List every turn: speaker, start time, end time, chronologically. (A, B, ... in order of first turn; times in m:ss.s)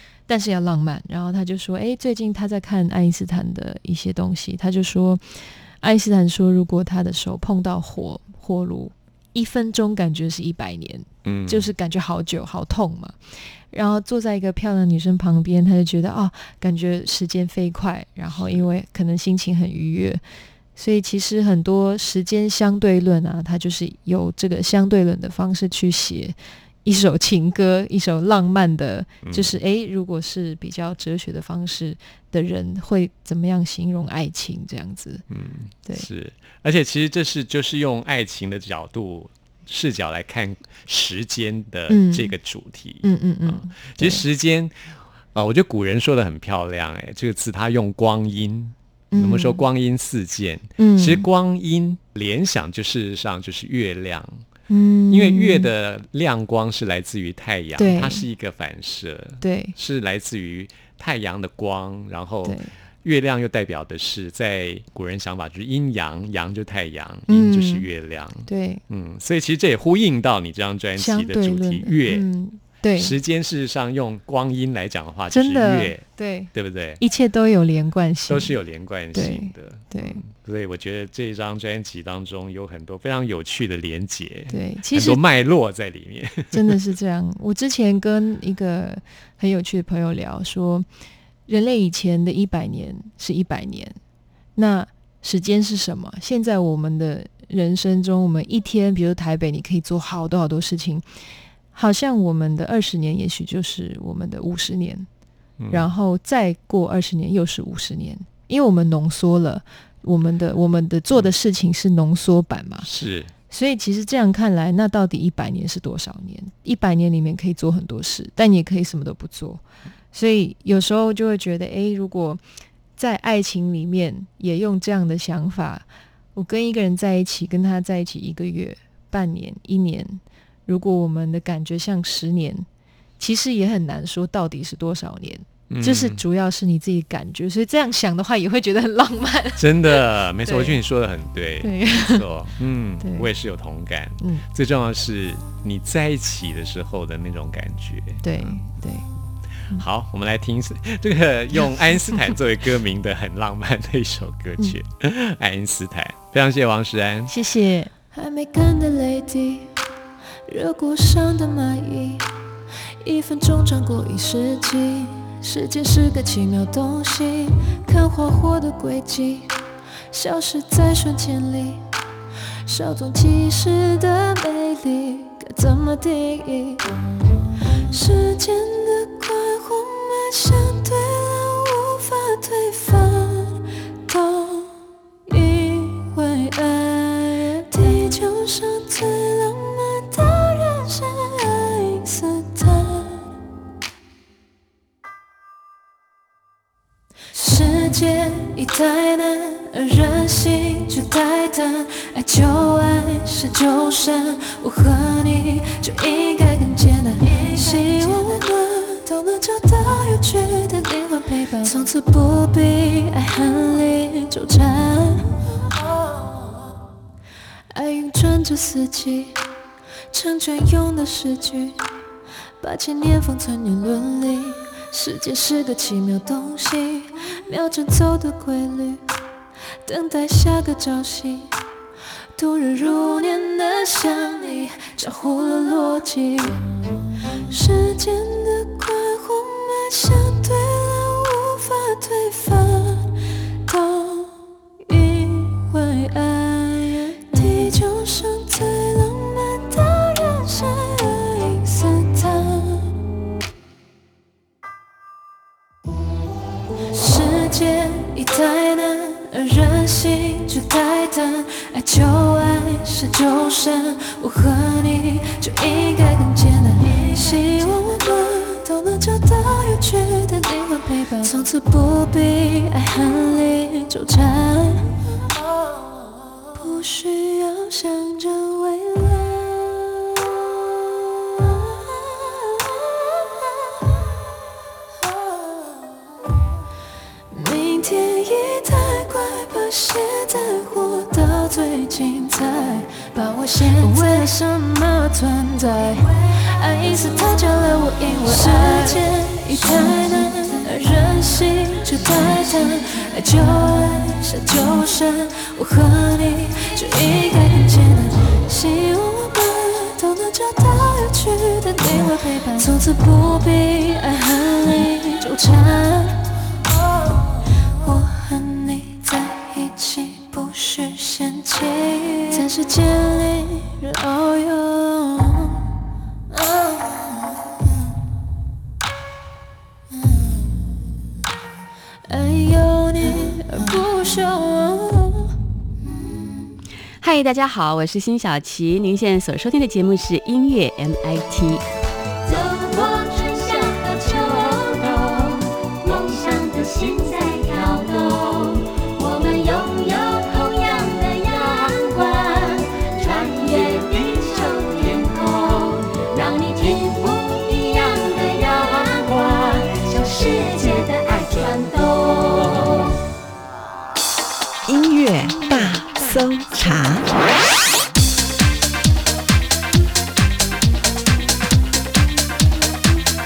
0:00.3-0:13.2 A
0:11.2-0:11.7 B
0:13.7-0:20.2 A
0:18.3-0:18.6 B
0:20.8-0:35.2 A
0:29.2-0:29.6 B
0:35.3-0:54.4 B
0:41.9-0:42.3 A
0:43.0-0:44.2 A
0:49.1-0:49.6 A
0:50.8-0:51.3 A
0:54.7-0:55.7 A
0:55.1-1:12.2 B
0:57.8-0:58.2 A
0:59.4-0:59.7 A
1:02.4-1:02.7 A
1:07.3-1:07.9 A
1:08.4-1:08.8 A
1:11.0-1:13.2 A
1:13.0-1:17.0 B
1:15.3-1:18.6 A
1:18.3-1:26.8 B
1:19.1-1:20.2 A
1:24.5-1:25.2 A
1:26.5-1:30.8 A
1:31.5-1:34.0 A
1:34.6-1:41.0 A
1:41.7-1:45.1 A
1:45.6-1:45.9 B
1:45.7-1:52.9 A
1:52.8-1:53.3 B
1:53.5-1:59.6 A
2:00.1-2:02.4 A
2:03.0-2:12.7 A
2:13.2-2:20.8 A
2:15.7-2:16.2 B
2:19.6-2:28.6 B
2:21.6-2:22.2 A
2:23.0-2:23.3 A
2:28.2-2:29.1 A
2:29.8-2:37.3 B
2:37.3-2:38.0 A
2:38.0-2:39.7 C
2:40.5-2:42.3 C
2:43.0-2:49.5 C
2:50.1-2:51.8 C
2:52.6-2:56.9 C
2:57.9-3:13.2 C
3:17.3-3:35.4 C
3:31.5-3:31.9 A
3:37.7-3:39.4 C
3:40.1-3:41.8 C
3:42.6-3:49.0 C
3:49.8-3:51.5 C
3:52.3-3:56.6 C
3:57.5-4:03.1 C
4:03.6-4:12.9 C
4:16.9-4:34.9 C
4:31.0-4:31.5 A
4:36.5-4:40.2 C
4:47.3-5:16.2 C
4:53.8-4:54.3 A
4:58.2-4:59.0 A
5:11.9-5:12.7 A
5:17.8-5:25.7 C
5:26.3-5:26.9 C
5:32.1-5:35.3 C
5:37.0-5:41.6 D
5:42.2-6:02.9 D
6:04.6-6:07.2 E